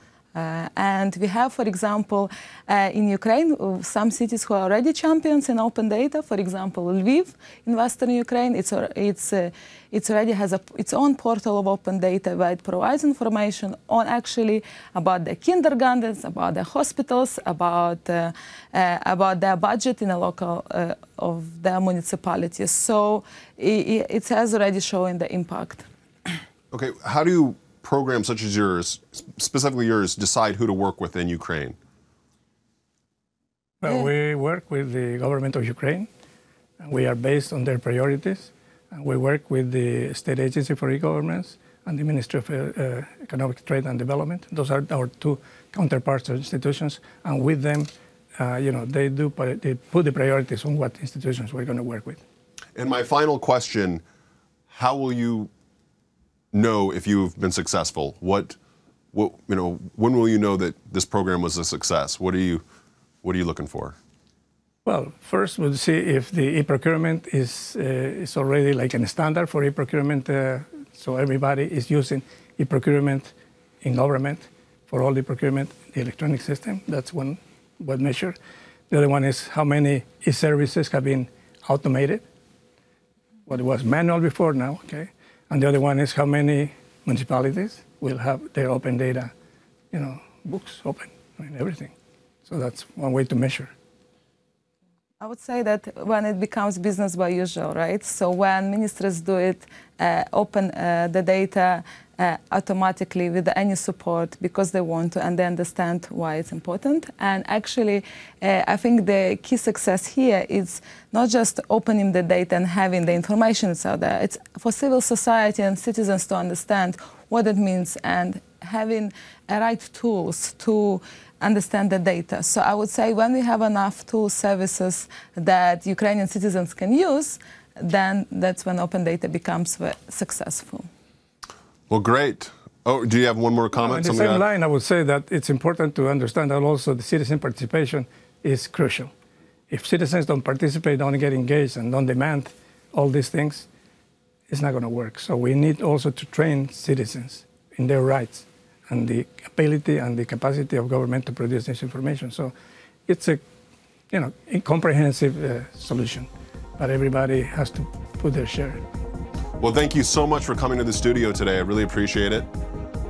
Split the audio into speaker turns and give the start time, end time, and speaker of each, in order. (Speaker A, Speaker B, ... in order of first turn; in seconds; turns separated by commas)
Speaker A: 0.3-26.3, Speaker B: 26.7-31.8, Speaker C: 33.8-36.1, Speaker A: 33.9-34.1, Speaker C: 36.8-52.2, Speaker B: 52.8-54.0, Speaker B: 54.7-55.5, Speaker B: 56.5-58.6, Speaker B: 59.1-62.6, Speaker B: 63.2-64.0, Speaker C: 64.8-78.4, Speaker C: 78.9-82.2, Speaker C: 83.5-89.3, Speaker C: 89.9-91.9, Speaker C: 92.5-93.7, Speaker A: 95.2-130.9, Speaker B: 131.9-134.4, Speaker C: 133.8-139.1, Speaker C: 139.7-143.7, Speaker C: 144.5-152.5, Speaker C: 153.1-153.4, Speaker C: 154.1-158.8, Speaker B: 159.6-162.5